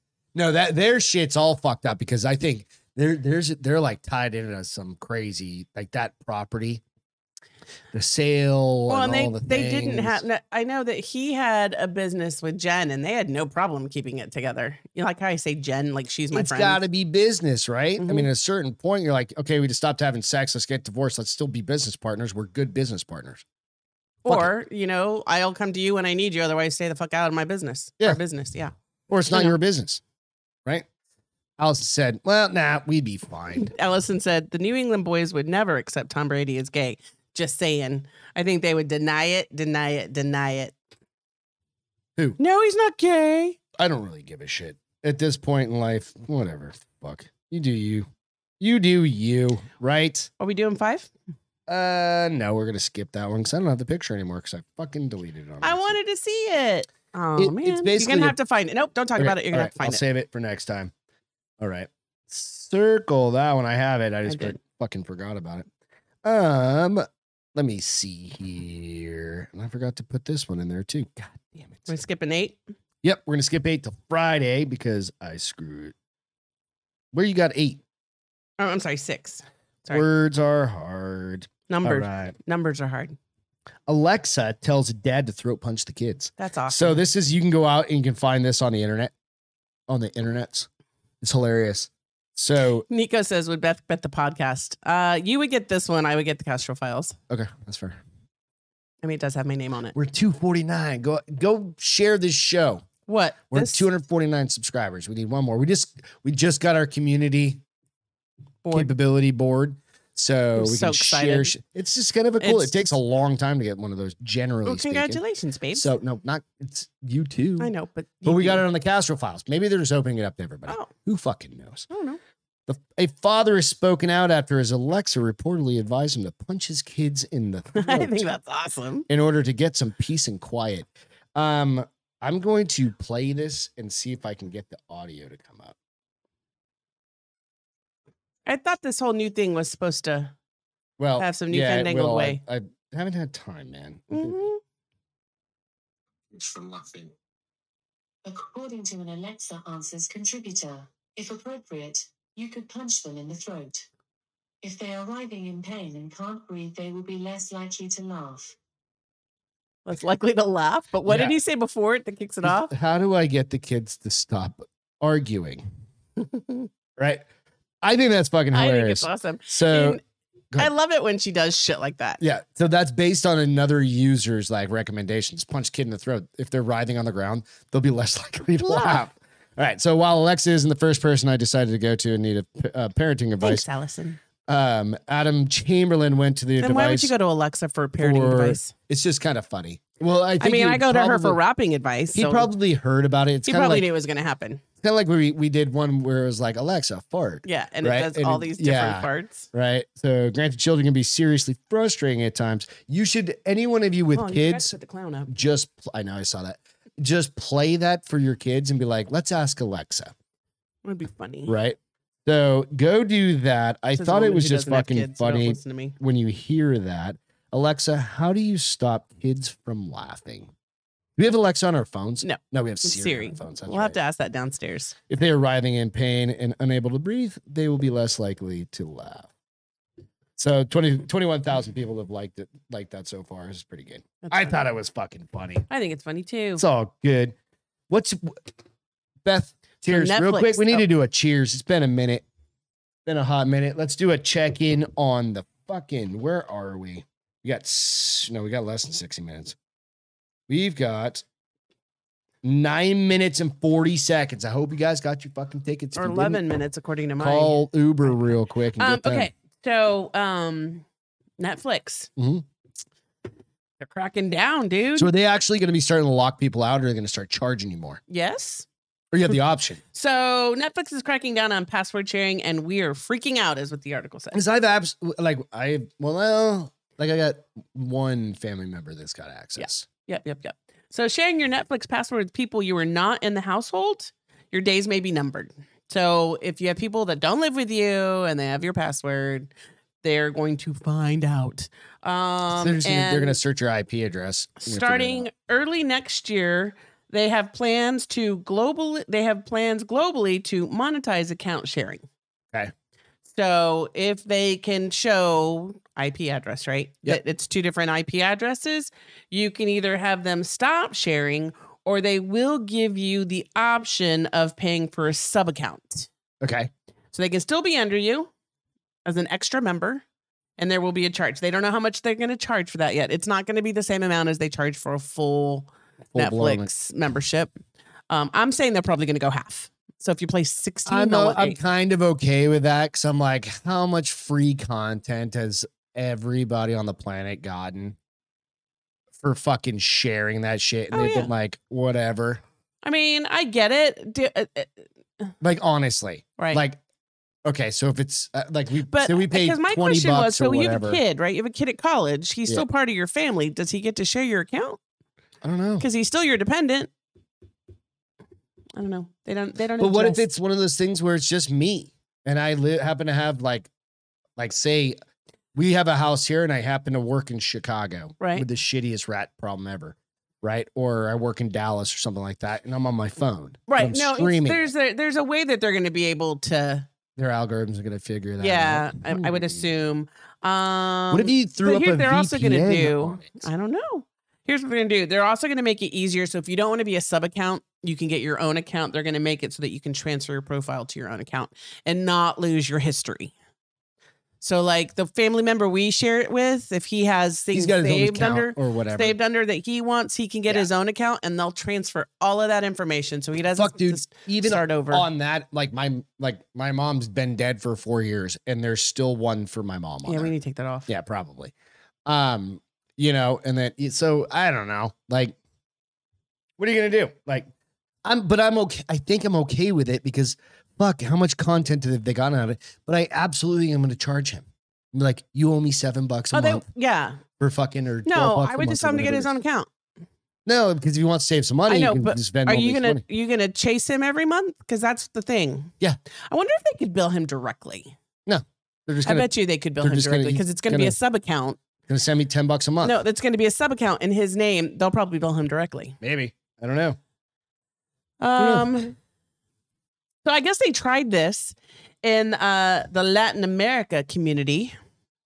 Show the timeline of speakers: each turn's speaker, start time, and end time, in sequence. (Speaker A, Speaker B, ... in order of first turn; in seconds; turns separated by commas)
Speaker A: 0.3-6.8, Speaker A: 7.9-10.2, Speaker B: 8.9-16.8, Speaker A: 16.3-23.4, Speaker B: 18.0-18.3, Speaker B: 24.2-28.7, Speaker A: 29.1-30.0, Speaker B: 29.3-29.6, Speaker A: 31.6-33.7, Speaker B: 33.6-40.7, Speaker B: 42.4-43.6, Speaker A: 43.8-48.1, Speaker A: 48.6-50.3, Speaker B: 50.4-51.1, Speaker A: 51.7-56.0, Speaker B: 55.6-60.0, Speaker A: 57.4-58.4, Speaker A: 59.2-60.9, Speaker A: 61.6-65.7, Speaker B: 64.2-64.5, Speaker A: 66.2-67.0, Speaker A: 67.5-71.9, Speaker B: 71.9-72.6, Speaker A: 73.0-75.9, Speaker A: 77.1-77.8, Speaker B: 78.6-80.0, Speaker A: 79.9-82.3, Speaker B: 81.7-83.2, Speaker A: 83.9-89.1, Speaker B: 86.4-87.0, Speaker A: 89.9-90.7, Speaker A: 91.2-92.8, Speaker B: 92.9-97.2, Speaker A: 97.3-98.0, Speaker B: 99.0-99.9, Speaker A: 99.9-102.8, Speaker B: 103.1-103.9, Speaker A: 103.5-107.6, Speaker B: 108.6-108.9, Speaker A: 108.7-115.2, Speaker B: 110.5-111.5, Speaker B: 112.4-113.0, Speaker B: 114.7-115.9, Speaker A: 115.7-117.7, Speaker B: 117.6-118.6, Speaker A: 118.2-121.8, Speaker B: 121.9-122.2, Speaker A: 122.7-128.3, Speaker B: 127.7-129.1, Speaker A: 129.1-135.7, Speaker B: 138.4-140.3, Speaker A: 141.0-144.4, Speaker B: 141.2-142.4, Speaker B: 144.1-144.6, Speaker C: 146.3-147.1, Speaker C: 148.2-153.8, Speaker C: 154.6-158.6, Speaker B: 159.8-162.7, Speaker A: 161.1-161.3, Speaker A: 162.4-165.6, Speaker B: 166.3-166.7, Speaker A: 167.0-167.2, Speaker A: 167.8-170.0, Speaker B: 168.5-170.0, Speaker B: 170.6-172.2, Speaker A: 172.2-183.6, Speaker B: 178.6-179.0, Speaker B: 183.4-184.2, Speaker A: 184.5-187.1, Speaker B: 186.6-188.7, Speaker A: 188.0-191.4, Speaker B: 190.4-192.5, Speaker A: 192.1-193.8, Speaker B: 193.4-194.6, Speaker A: 194.8-204.7, Speaker B: 197.4-199.5, Speaker B: 204.1-205.3, Speaker A: 205.3-210.1, Speaker B: 210.8-211.5, Speaker A: 211.5-220.5, Speaker B: 213.9-216.0, Speaker A: 221.2-224.0, Speaker B: 222.2-224.9, Speaker A: 225.1-229.3, Speaker A: 230.4-235.7, Speaker B: 234.2-234.6, Speaker B: 235.7-236.6, Speaker A: 236.6-237.3, Speaker A: 237.9-238.4, Speaker A: 239.2-242.2, Speaker B: 239.9-240.8, Speaker A: 243.1-249.6, Speaker A: 250.5-251.2, Speaker A: 252.4-256.4, Speaker B: 255.9-260.8, Speaker A: 257.2-259.3, Speaker B: 261.4-262.1, Speaker A: 262.2-262.4, Speaker B: 263.8-265.1, Speaker A: 264.9-268.0, Speaker B: 268.1-268.7, Speaker A: 269.1-269.8, Speaker B: 269.9-274.4, Speaker A: 274.3-279.9, Speaker B: 279.6-289.5, Speaker B: 290.0-293.4, Speaker A: 292.5-295.3, Speaker B: 294.6-302.0, Speaker B: 303.3-316.1, Speaker A: 316.4-316.7, Speaker B: 317.1-318.3, Speaker B: 319.0-320.0, Speaker B: 320.6-327.5, Speaker A: 326.1-326.7, Speaker B: 328.1-331.6, Speaker A: 330.9-338.0, Speaker A: 339.2-342.4, Speaker B: 340.9-341.3, Speaker B: 342.8-345.3, Speaker A: 345.4-346.8, Speaker A: 347.4-351.0, Speaker B: 348.9-354.8, Speaker A: 355.4-355.9, Speaker B: 355.8-356.9, Speaker B: 358.8-360.2, Speaker A: 359.8-363.7, Speaker A: 364.4-365.0, Speaker A: 365.5-374.7, Speaker B: 368.2-368.4, Speaker B: 373.7-376.9, Speaker A: 377.1-379.6, Speaker B: 378.4-393.3, Speaker A: 381.1-383.5, Speaker B: 394.4-405.1, Speaker A: 397.5-399.2, Speaker A: 403.5-410.3, Speaker B: 410.1-410.9, Speaker A: 410.9-411.5, Speaker A: 412.1-415.4, Speaker A: 416.6-417.5, Speaker A: 418.0-426.6, Speaker B: 426.3-427.2, Speaker A: 427.4-429.3, Speaker B: 428.1-429.7, Speaker A: 430.4-433.0, Speaker B: 431.7-435.7, Speaker B: 436.3-437.9, Speaker A: 438.2-440.9, Speaker B: 439.0-441.6, Speaker A: 441.9-443.0, Speaker B: 442.8-446.0, Speaker A: 446.0-447.0, Speaker B: 448.2-448.9, Speaker A: 448.4-448.7, Speaker B: 450.2-454.7